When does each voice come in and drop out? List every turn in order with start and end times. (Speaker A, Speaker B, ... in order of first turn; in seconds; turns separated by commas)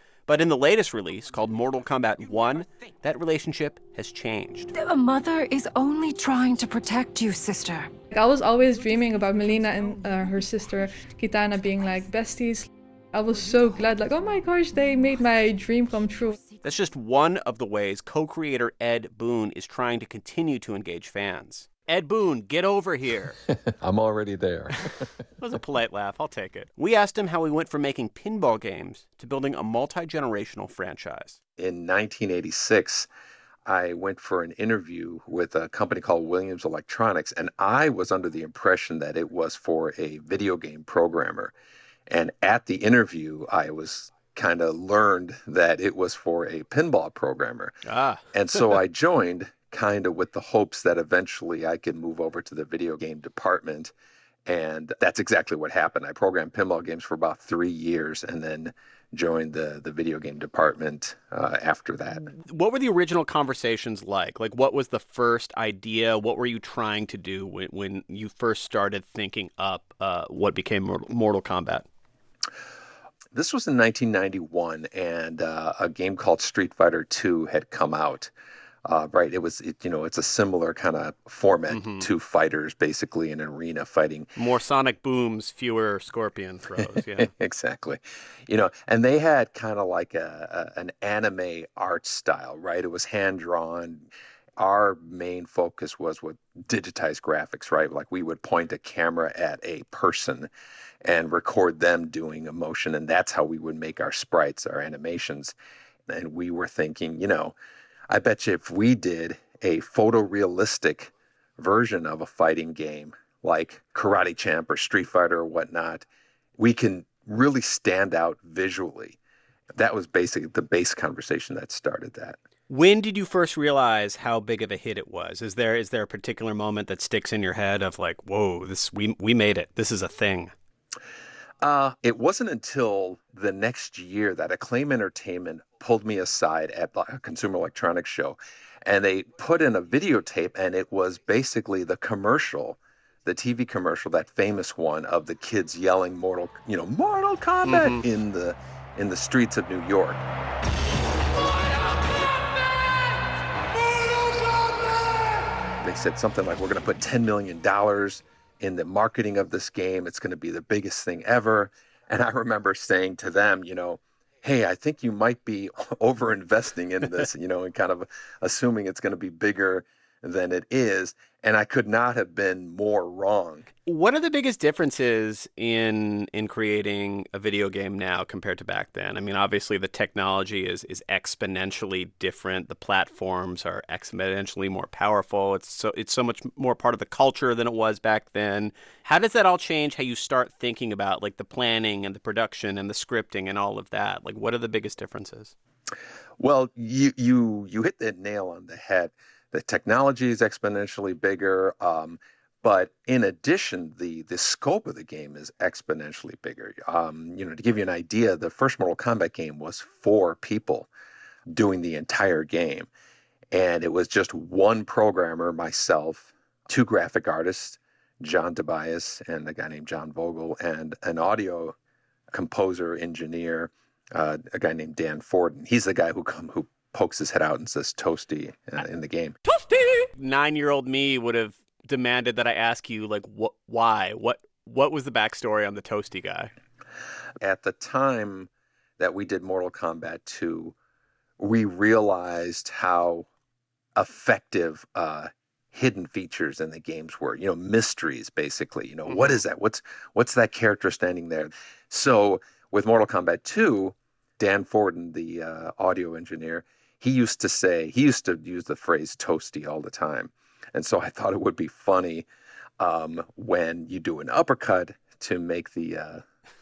Speaker A: 0.3-4.7, Speaker B: 4.8-7.9, Speaker C: 8.1-16.4, Speaker A: 16.6-23.4, Speaker D: 23.8-24.8, Speaker A: 25.4-31.4, Speaker D: 31.6-33.1, Speaker D: 33.6-41.5, Speaker D: 42.1-47.7, Speaker A: 47.9-48.7, Speaker D: 48.3-53.9, Speaker D: 54.5-62.2, Speaker A: 62.3-71.8, Speaker D: 73.3-78.3, Speaker D: 78.8-84.3, Speaker A: 81.7-82.1, Speaker A: 84.3-87.3, Speaker D: 86.8-100.5, Speaker D: 101.0-105.5, Speaker D: 106.1-107.5, Speaker D: 108.1-116.0, Speaker D: 116.6-119.2, Speaker D: 119.8-122.4, Speaker A: 122.7-130.5, Speaker D: 131.6-150.2, Speaker A: 147.6-148.0, Speaker D: 155.8-173.7, Speaker A: 173.9-195.5, Speaker D: 196.4-210.9, Speaker D: 211.5-212.9, Speaker D: 213.5-221.7, Speaker D: 222.3-229.3, Speaker A: 230.2-236.5, Speaker D: 237.4-240.7, Speaker D: 241.4-243.3, Speaker D: 243.9-262.3, Speaker A: 249.1-249.4, Speaker D: 262.8-266.2